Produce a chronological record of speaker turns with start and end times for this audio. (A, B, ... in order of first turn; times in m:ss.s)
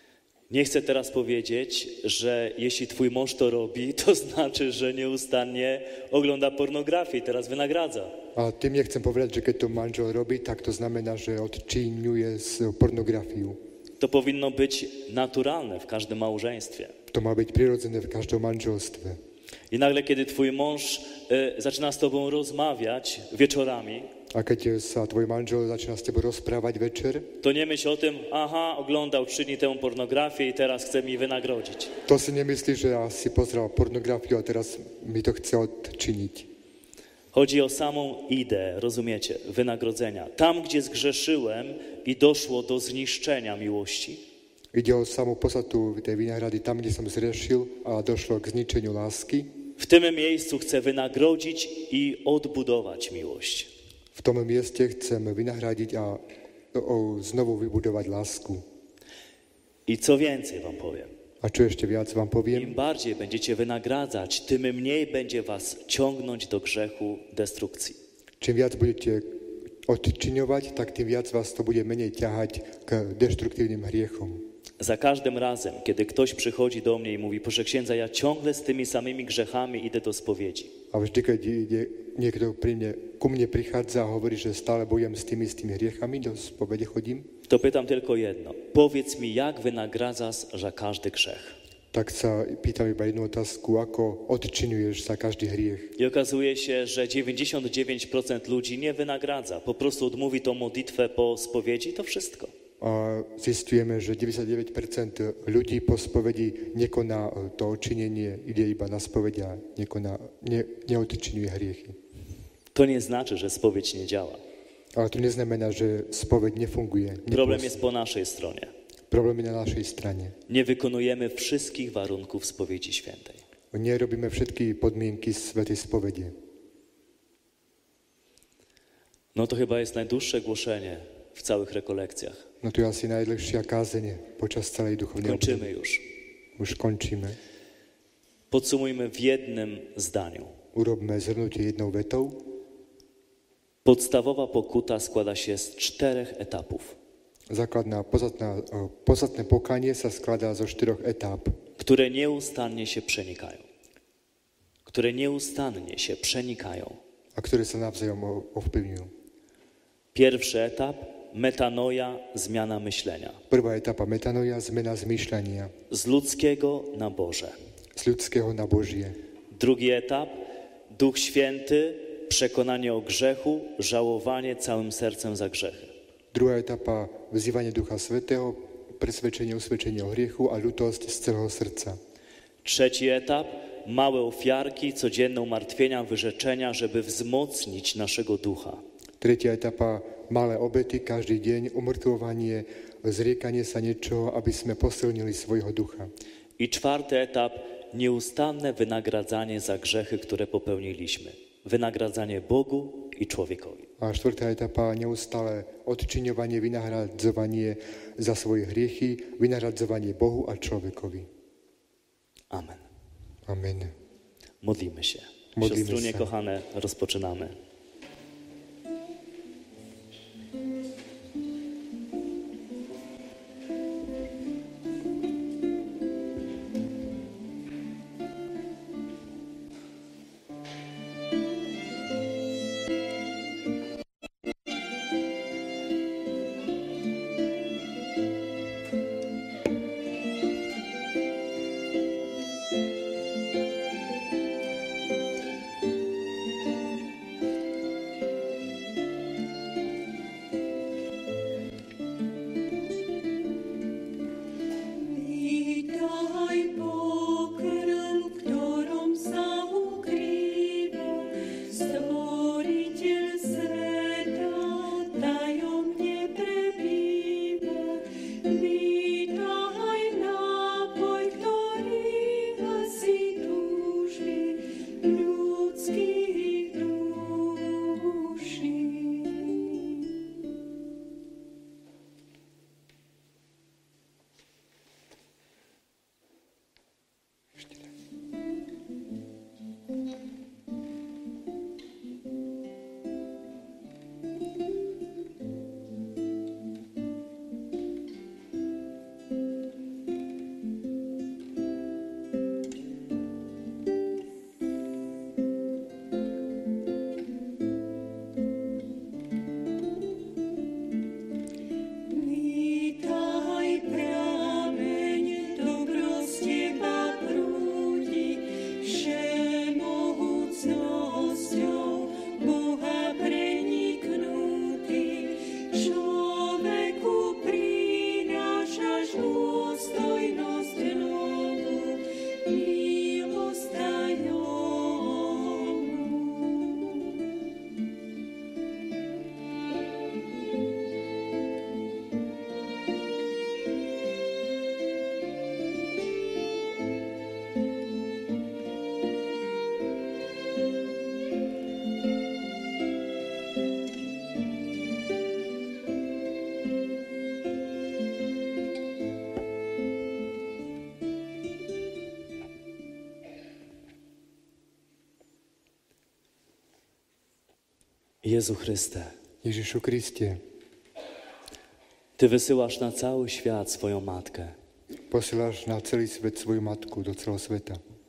0:00.5-0:08.2 A
0:08.3-0:13.6 B
0:14.0-0:16.9 A
0:17.1-0:19.2 B
0:19.7-0:24.1 A
0:24.3-0:27.3 B
0:27.4-0:31.9 A
0:32.1-0:36.5 B
0:37.3-0:44.2 A
0:44.7-0:49.5 B
0:49.8-0:53.7 A
0:54.1-0:56.2 B
0:56.7-0:58.6 B
0:59.9-1:01.1 A
1:01.4-1:02.8 B
1:02.5-1:08.0 A
1:08.4-1:14.4 B
1:14.8-1:20.7 A
1:20.9-1:27.3 B
1:27.5-1:31.6 A
1:31.9-1:35.9 B
1:36.0-1:42.5 A
1:42.8-1:52.0 B
1:52.7-1:54.4 A
1:54.9-1:57.8 B
1:57.3-1:58.7 A
1:59.1-2:00.4 B
2:00.5-2:03.4 A
2:03.7-2:06.3 B
2:09.3-2:12.4 A
2:12.6-2:15.7 B
2:15.2-2:16.0 A
2:16.6-2:17.4 B
2:18.5-2:20.5 A
2:20.7-2:22.4 B
2:23.8-2:27.0 A
2:27.5-2:31.6 B
2:31.8-2:33.6 A
2:34.8-2:37.0 A
2:37.3-2:39.1 B
2:40.1-2:43.4 A
2:43.5-2:45.7 B
2:45.9-2:47.5 A
2:48.0-2:49.2 B
2:49.5-2:55.9 A
2:56.3-3:02.0 B
3:02.6-3:08.8 A
3:09.2-3:16.1 B
3:16.6-3:23.9 A
3:24.0-3:31.3 B
3:32.5-3:32.8 A
3:33.4-3:33.9 B
3:34.6-3:37.5 A
3:35.6-3:36.3 B
4:14.9-4:39.8 C
5:12.1-5:37.1 C
6:08.2-6:09.1 A
6:09.4-6:10.4 B
6:12.2-6:14.5 A
6:15.1-6:17.8 B